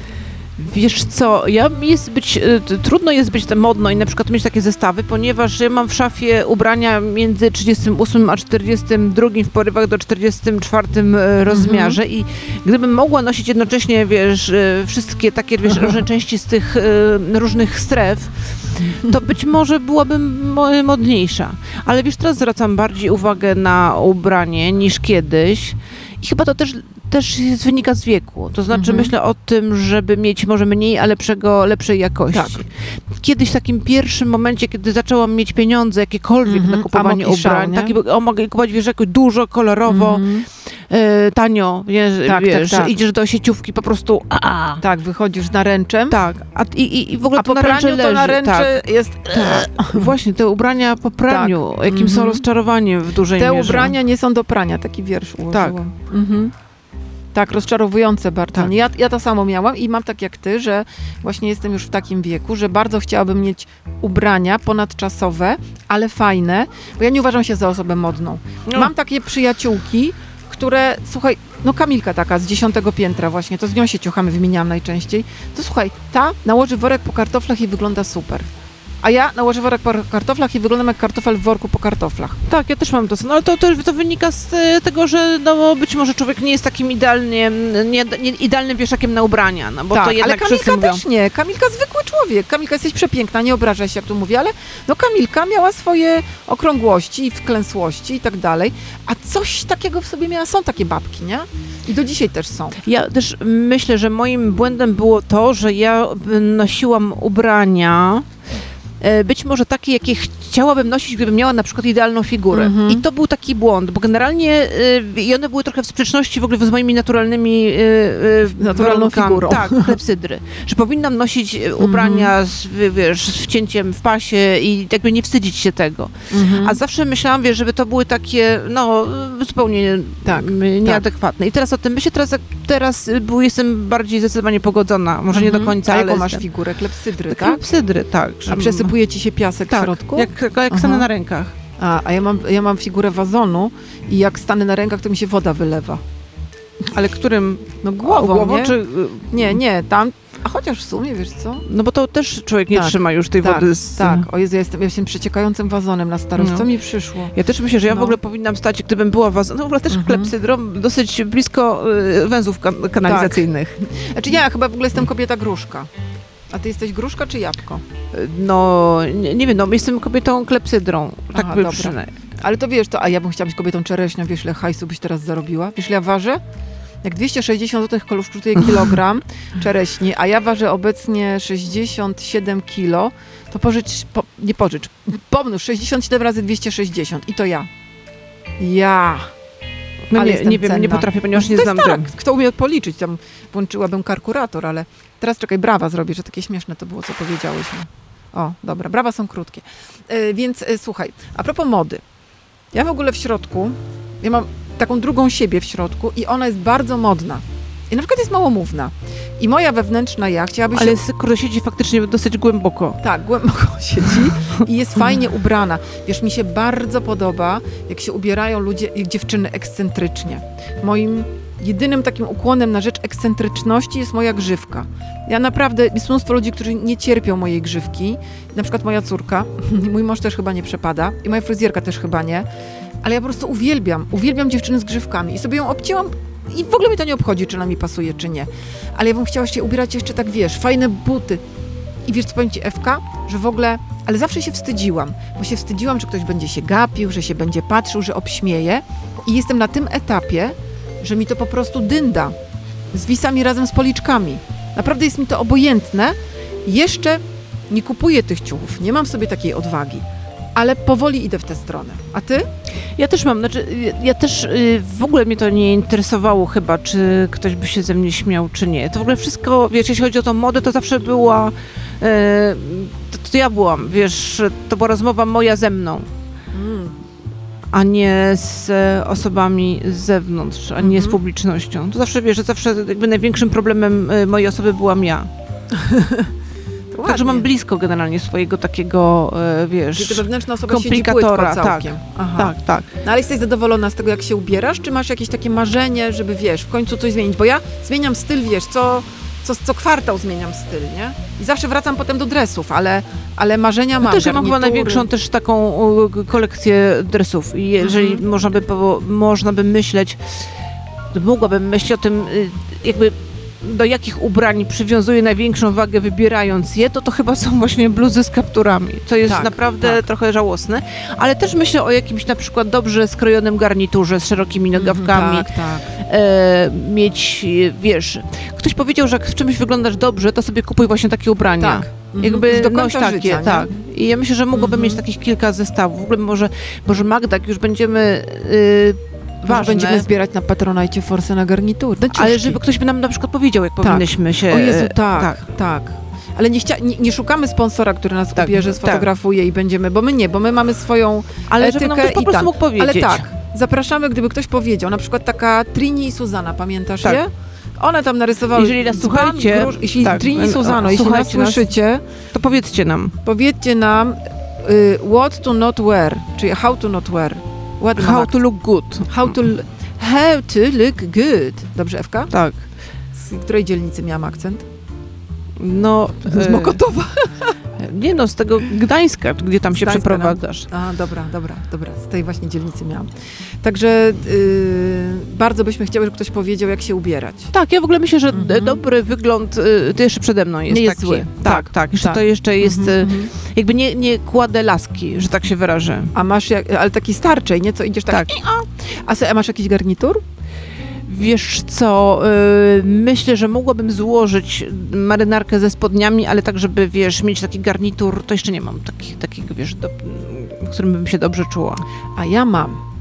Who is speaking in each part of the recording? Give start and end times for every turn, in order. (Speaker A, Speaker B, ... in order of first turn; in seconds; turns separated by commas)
Speaker A: 0.6-44.8, Speaker B: 11.5-12.0, Speaker B: 28.7-29.1, Speaker B: 32.3-32.6, Speaker B: 36.5-38.0, Speaker B: 39.9-40.5, Speaker B: 42.2-42.9, Speaker B: 44.8-46.2, Speaker A: 46.1-54.0, Speaker B: 47.4-50.1, Speaker B: 51.3-52.4, Speaker B: 53.4-56.5, Speaker A: 55.5-55.8, Speaker B: 57.3-78.5, Speaker A: 68.7-68.9, Speaker B: 79.0-82.4, Speaker A: 82.5-91.0, Speaker B: 89.9-102.8, Speaker A: 102.8-108.3, Speaker A: 109.0-136.5, Speaker B: 112.5-113.0, Speaker B: 118.6-120.0, Speaker B: 121.8-122.3, Speaker B: 126.3-126.8, Speaker B: 130.2-131.0, Speaker B: 135.3-137.6, Speaker A: 137.3-138.9, Speaker B: 138.5-141.1, Speaker A: 139.7-141.6, Speaker B: 141.8-146.0, Speaker A: 146.9-149.6, Speaker B: 147.8-148.8, Speaker B: 149.3-151.7, Speaker A: 151.7-154.3, Speaker B: 152.7-157.3, Speaker A: 156.4-156.7, Speaker A: 157.3-163.9, Speaker B: 157.9-158.2, Speaker B: 159.9-160.3, Speaker B: 163.0-165.9, Speaker B: 166.5-167.8, Speaker A: 168.1-172.2, Speaker B: 171.3-176.4, Speaker B: 177.0-187.7, Speaker B: 188.6-189.3, Speaker A: 190.1-192.1, Speaker B: 190.1-202.0, Speaker B: 202.7-211.0, Speaker A: 210.7-213.0, Speaker B: 213.0-232.5, Speaker B: 233.0-241.4, Speaker B: 242.1-252.3, Speaker B: 252.9-262.5, Speaker A: 263.0-276.1, Speaker B: 276.5-277.0, Speaker A: 277.7-285.3, Speaker B: 280.8-281.2, Speaker B: 285.7-286.3, Speaker B: 286.9-287.5, Speaker A: 287.1-293.0, Speaker B: 289.9-305.1, Speaker A: 304.0-310.6, Speaker B: 307.8-308.2, Speaker A: 311.1-340.1, Speaker B: 319.3-320.0, Speaker B: 324.8-325.9, Speaker B: 331.6-333.7, Speaker B: 334.5-335.0, Speaker B: 339.5-342.6, Speaker A: 342.0-345.4, Speaker B: 343.8-362.0, Speaker A: 348.4-349.1, Speaker A: 351.5-353.3, Speaker A: 358.5-361.7, Speaker A: 362.3-363.2, Speaker B: 363.2-368.4, Speaker A: 368.0-369.3, Speaker B: 369.1-372.3, Speaker A: 372.3-372.6, Speaker B: 373.1-374.6, Speaker A: 375.6-376.8, Speaker B: 376.2-377.6, Speaker A: 377.8-380.7, Speaker B: 379.8-387.5, Speaker A: 387.5-396.1, Speaker B: 388.3-388.8, Speaker B: 390.7-393.3, Speaker B: 396.1-400.2, Speaker A: 401.1-411.9, Speaker B: 412.2-412.8